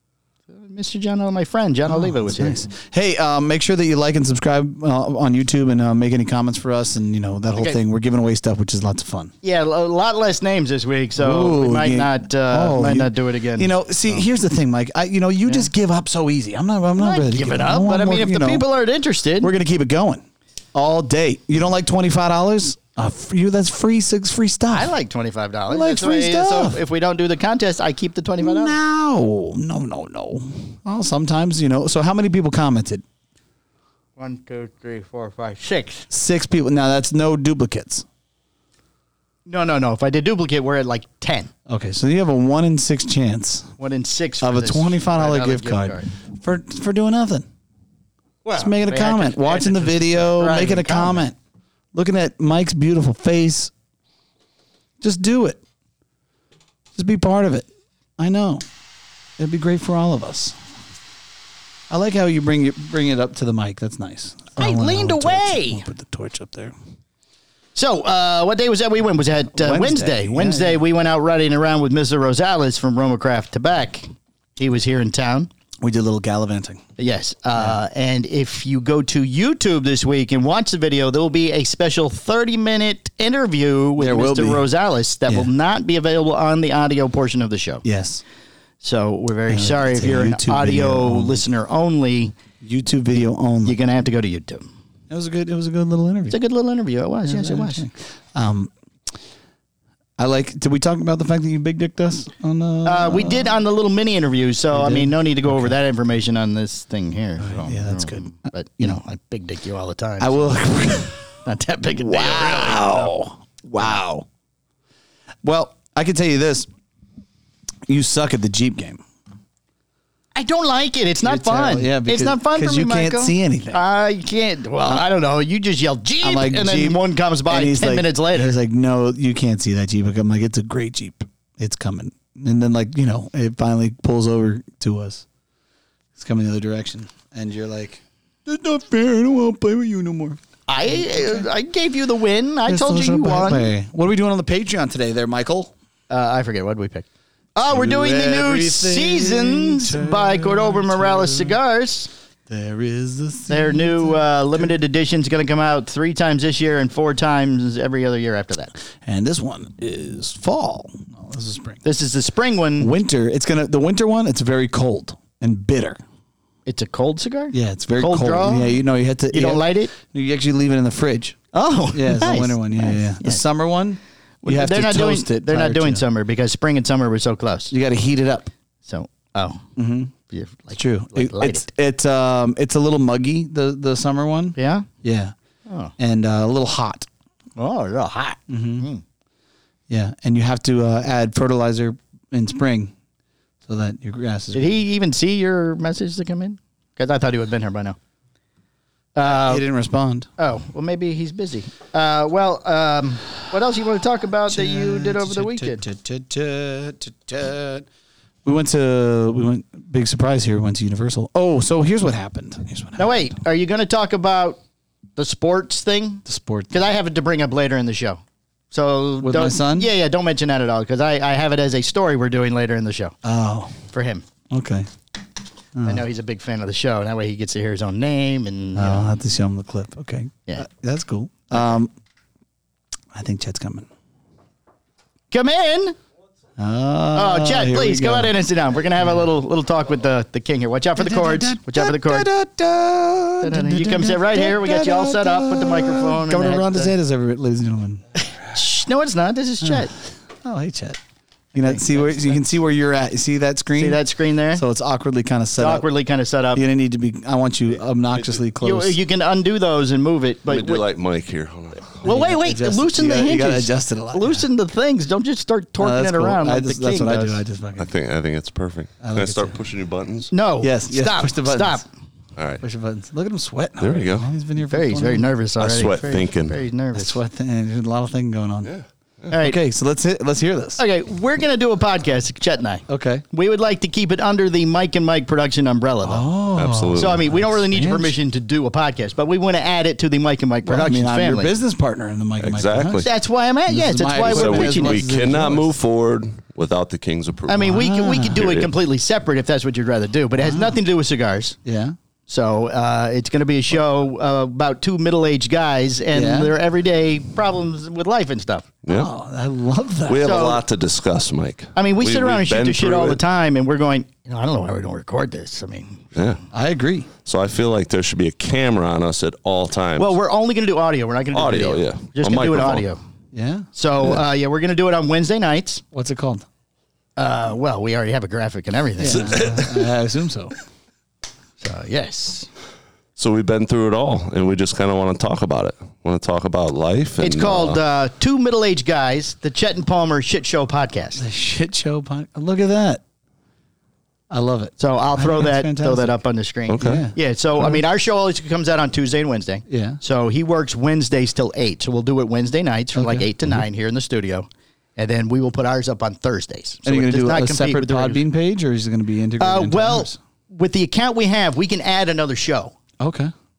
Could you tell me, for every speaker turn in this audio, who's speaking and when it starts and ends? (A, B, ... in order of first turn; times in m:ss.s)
0:00.5-0:02.6 A
0:01.9-0:09.3 B
0:09.4-0:14.2 A
0:11.2-0:18.6 B
0:17.0-0:19.5 A
0:19.4-0:24.9 B
0:24.7-0:28.8 A
0:25.7-0:26.8 B
0:28.4-0:33.0 B
0:34.2-0:36.1 A
0:36.1-0:38.0 B
0:39.4-0:41.5 A
0:41.7-0:43.7 B
0:43.8-0:46.1 A
0:44.4-0:47.5 B
0:48.4-0:51.2 A
0:48.6-0:51.3 B
0:51.9-0:53.7 B
0:55.0-0:55.6 B
0:56.9-0:57.7 B
0:58.2-0:58.6 B
0:59.4-1:00.6 B
1:01.9-1:06.7 B
1:04.6-1:05.8 A
1:07.8-1:15.5 A
1:09.5-1:10.8 B
1:15.8-1:16.8 B
1:17.0-1:27.8 A
1:24.0-1:24.6 B
1:27.8-1:28.2 B
1:28.8-1:32.3 A
1:29.5-1:31.4 B
1:32.6-1:33.8 B
1:33.6-1:34.7 A
1:35.1-1:36.4 B
1:36.3-1:37.8 A
1:37.3-1:38.7 B
1:40.2-1:43.6 B
1:42.8-1:50.6 A
1:44.7-1:45.7 B
1:47.4-1:48.9 B
1:50.2-1:51.3 B
1:51.4-1:53.1 A
1:52.0-1:54.2 B
1:55.4-1:56.7 B
1:57.9-1:59.0 B
2:00.3-2:08.6 A
2:01.2-2:03.8 B
2:06.2-2:07.0 B
2:07.5-2:15.2 B
2:16.2-2:21.5 B
2:20.7-2:23.7 A
2:22.7-2:25.7 B
2:26.1-2:32.1 A
2:27.7-2:31.6 B
2:32.5-2:34.7 B
2:33.5-2:38.7 A
2:39.0-2:41.8 B
2:41.8-2:42.9 A
2:42.8-2:46.0 B
2:46.6-2:48.8 A
2:47.5-2:51.4 B
2:49.3-2:49.9 A
2:51.5-2:53.4 A
2:51.9-2:56.0 B
2:54.4-2:57.7 A
2:57.7-2:58.5 B
2:58.8-2:59.6 A
2:59.8-3:00.1 B
3:00.3-3:01.6 A
3:00.7-3:05.3 B
3:04.6-3:04.9 A
3:05.6-3:05.9 A
3:06.0-3:07.1 B
3:07.6-3:09.0 A
3:08.5-3:08.9 B
3:09.9-3:12.9 B
3:13.7-3:14.7 B
3:14.5-3:18.0 A
3:19.2-3:19.7 A
3:19.3-3:20.3 B
3:20.4-3:25.8 A
3:24.5-3:27.8 B
3:28.4-3:33.3 B
3:33.0-3:34.6 A
3:35.2-3:38.2 A
3:36.2-3:36.7 B
3:38.7-3:43.2 A
3:39.2-3:39.9 B
3:43.2-3:43.7 B
3:43.9-3:44.2 A
3:44.5-3:44.9 B
3:45.8-3:46.0 B
3:45.8-3:49.1 A
3:48.7-3:51.9 B
3:53.1-3:53.9 B
3:55.3-3:56.0 A
3:56.6-3:58.3 B
3:57.1-4:02.3 A
4:01.0-4:08.0 B
4:03.4-4:06.9 A
4:08.4-4:09.9 A
4:09.6-4:09.9 B
4:10.4-4:11.0 B
4:11.5-4:14.0 B
4:11.6-4:12.4 A
4:13.8-4:14.6 A
4:14.5-4:15.8 B
4:15.6-4:16.6 A
4:16.5-4:19.0 B
4:18.1-4:18.4 C
4:18.6-4:20.8 A
4:20.4-4:22.1 C
4:22.0-4:27.4 A
4:22.0-4:24.4 B
4:25.8-4:27.9 B
4:27.8-4:30.3 C
4:29.0-4:29.5 B
4:30.3-4:31.8 A
4:30.6-4:31.8 B
4:32.4-4:32.6 C
4:32.6-4:35.3 B
4:33.8-4:34.3 C
4:34.7-4:37.2 A
4:35.6-4:36.6 C
4:36.9-4:38.7 B
4:39.3-4:39.6 A
4:39.4-4:40.8 B
4:40.8-4:46.3 A
4:42.9-4:43.2 B
4:46.0-4:48.1 B
4:46.6-4:47.3 C
4:47.0-4:51.5 A
4:50.6-4:53.0 B
4:52.4-4:53.1 C
4:53.0-4:55.0 A
4:53.7-4:55.7 B
4:54.1-4:57.8 C
4:57.5-5:01.6 A
4:57.6-4:58.4 B
4:58.3-4:58.7 C
5:00.4-5:00.8 B
5:01.6-5:02.0 B
5:02.3-5:08.8 A
5:06.1-5:06.5 B
5:08.8-5:09.1 C
5:08.9-5:10.3 B
5:10.1-5:13.2 C
5:10.2-5:10.6 A
5:11.8-5:16.1 A
5:16.1-5:16.4 C
5:16.5-5:17.1 B
5:17.2-5:20.2 C
5:20.0-5:23.0 A
5:21.3-5:22.9 C
5:23.3-5:23.7 B
5:23.7-5:25.8 A
5:25.9-5:26.4 B
5:27.2-5:29.8 A
5:29.0-5:30.6 B
5:31.6-5:32.5 A
5:33.2-5:37.8 C
5:37.2-5:41.2 A
5:41.2-5:43.0 B
5:44.3-5:46.2 B
5:44.8-5:58.2 A
5:46.7-5:47.0 C
5:46.8-5:47.8 B
5:49.7-5:50.0 B
5:52.9-5:53.6 B
5:56.8-6:00.2 B
5:59.4-6:02.8 A
6:03.0-6:03.3 B